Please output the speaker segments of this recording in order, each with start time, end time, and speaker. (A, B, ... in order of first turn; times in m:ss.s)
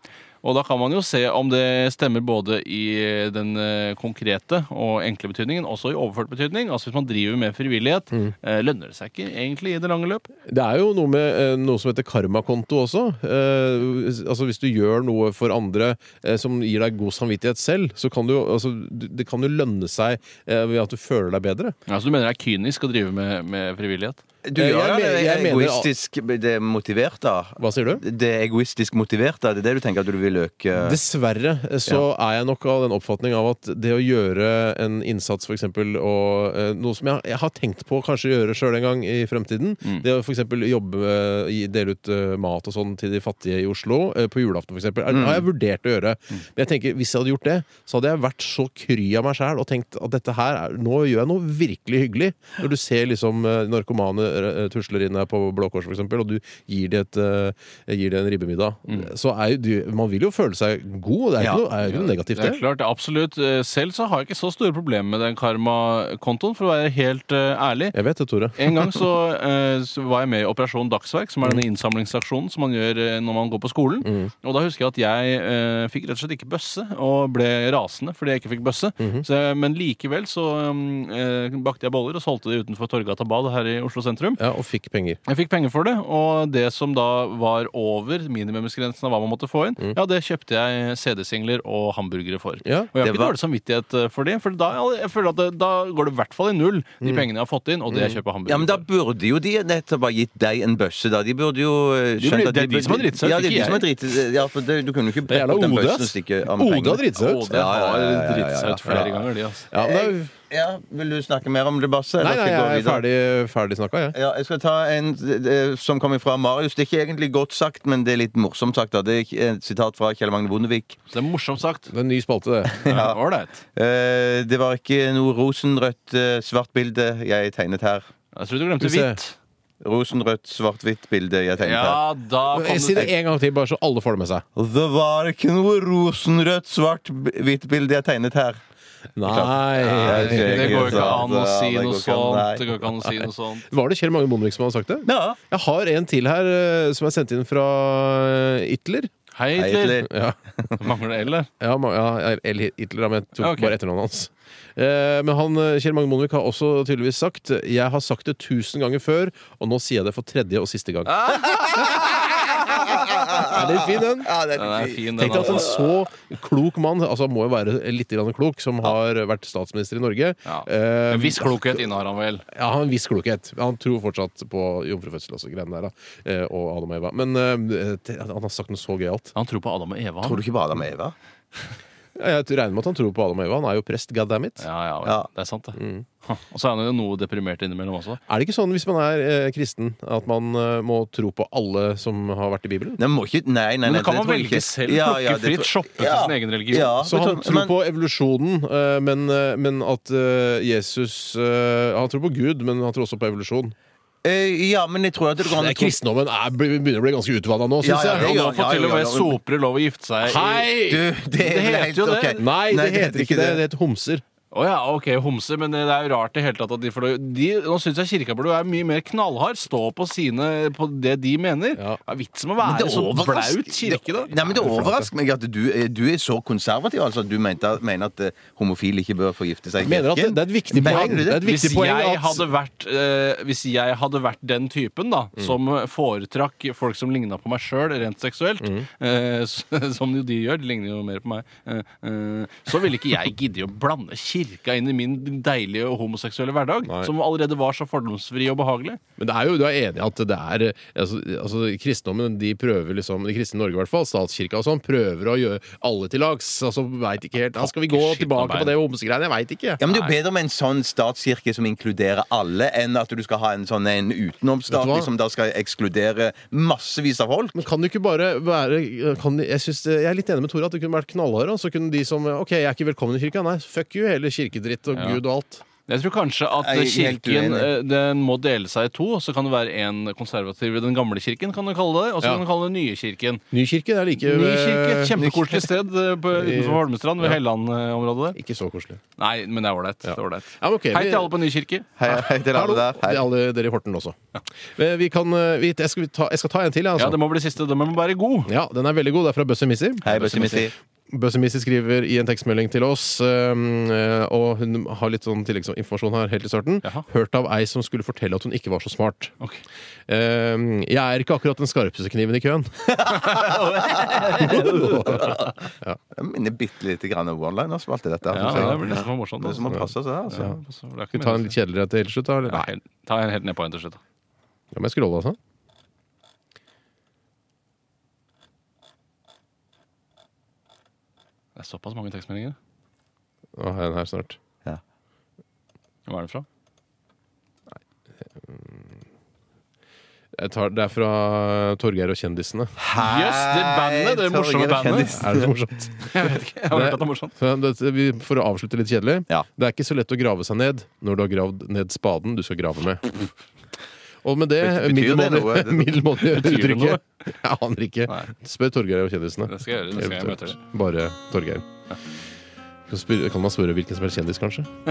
0:00.4-0:10.3 A
0:10.5-0:21.8 B
0:21.9-0:24.2 A
0:24.4-0:31.0 C
0:24.5-0:25.9 B
0:27.6-0:28.0 B
0:30.7-1:02.6 B
0:45.1-0:45.4 C
1:01.8-1:08.0 A
1:07.9-1:08.8 B
1:08.6-1:24.4 A
1:14.0-1:14.3 B
1:19.0-1:19.2 B
1:24.4-1:25.2 B
1:25.2-1:38.8 A
1:32.6-1:33.0 B
1:33.0-1:33.4 C
1:37.0-1:37.3 B
1:37.9-1:38.2 B
1:38.5-1:53.0 C
1:42.2-1:43.9 A
1:45.3-1:47.6 B
1:47.1-1:49.6 A
1:48.8-1:49.2 B
1:49.7-1:50.3 B
1:52.2-1:54.2 B
1:54.1-2:01.0 C
2:01.1-2:01.9 A
2:01.9-2:02.8 B
2:02.8-2:03.2 C
2:02.8-2:03.6 A
2:03.8-2:08.0 C
2:08.3-2:09.4 A
2:08.8-2:09.2 B
2:09.8-2:12.0 C
2:11.6-2:13.1 A
2:12.5-2:14.4 B
2:14.6-2:18.6 C
2:19.2-2:21.2 B
2:19.2-2:22.7 C
2:19.9-2:23.7 A
2:22.8-2:29.1 B
2:25.0-2:25.4 C
2:29.3-2:30.0 A
2:29.6-2:30.8 C
2:30.0-2:30.4 B
2:30.8-2:31.5 A
2:31.6-2:42.0 B
2:33.4-2:33.7 A
2:41.0-2:43.1 A
2:41.8-2:45.9 C
2:43.4-2:44.4 B
2:44.5-2:45.7 A
2:45.2-2:51.9 B
2:50.4-2:52.4 A
2:52.5-2:59.3 B
2:59.3-3:00.4 A
3:00.2-3:01.1 C
3:02.2-3:04.6 B
3:04.6-3:08.2 A
3:05.8-3:06.0 B
3:08.3-3:13.0 B
3:13.0-3:17.7 C
3:13.8-3:16.9 A
3:17.0-3:23.7 B
3:24.2-3:26.0 C
3:25.4-3:28.3 B
3:27.8-3:29.4 C
3:28.1-3:30.8 A
3:30.2-3:31.1 B
3:30.8-3:33.6 C
3:31.4-3:32.4 A
3:32.4-3:34.2 B
3:34.5-3:44.7 A
3:42.6-3:51.4 C
3:44.5-3:45.1 B
3:49.8-3:52.4 B
3:50.9-4:09.0 A
3:58.6-3:58.9 B
4:06.8-4:07.1 B
4:09.2-4:19.8 B
4:17.5-4:18.8 A
4:19.8-4:27.6 C
4:19.9-4:20.1 A
4:24.7-4:25.1 B
4:27.5-4:35.6 B
4:34.9-4:35.2 A
4:35.9-4:43.4 A
4:36.6-4:37.7 C
4:43.5-4:45.2 B
4:44.2-4:48.4 A
4:45.2-4:45.7 C
4:46.3-4:47.4 B
4:48.3-4:49.0 B
4:49.2-4:51.9 A
4:50.0-4:51.4 B
4:52.0-4:53.3 C
4:52.0-4:54.1 B
4:54.8-4:57.2 B
4:57.0-4:58.5 A
4:58.4-5:09.3 B
5:00.0-5:00.7 C
5:00.1-5:00.7 A
5:10.1-5:13.0 B
5:12.9-5:15.5 C
5:13.3-5:15.4 A
5:14.2-5:16.0 B
5:16.1-5:20.5 C
5:18.3-5:19.6 A
5:18.4-5:18.8 B
5:19.6-5:20.6 B
5:20.3-5:21.6 A
5:21.1-5:22.7 B
5:22.4-5:24.0 A
5:24.7-5:25.4 B
5:31.6-5:32.6 A
5:33.6-5:34.4 B
5:36.1-5:36.4 A
5:38.4-5:38.8 B
5:40.3-5:42.7 B
5:42.8-5:45.5 C
5:43.0-5:45.3 A
5:45.0-5:53.3 B
5:46.0-5:47.3 A
5:54.2-6:01.6 B
5:54.6-5:56.0 C
5:56.2-5:57.0 A
5:58.1-5:58.3 A
5:59.5-6:00.6 A
6:02.9-6:04.7 B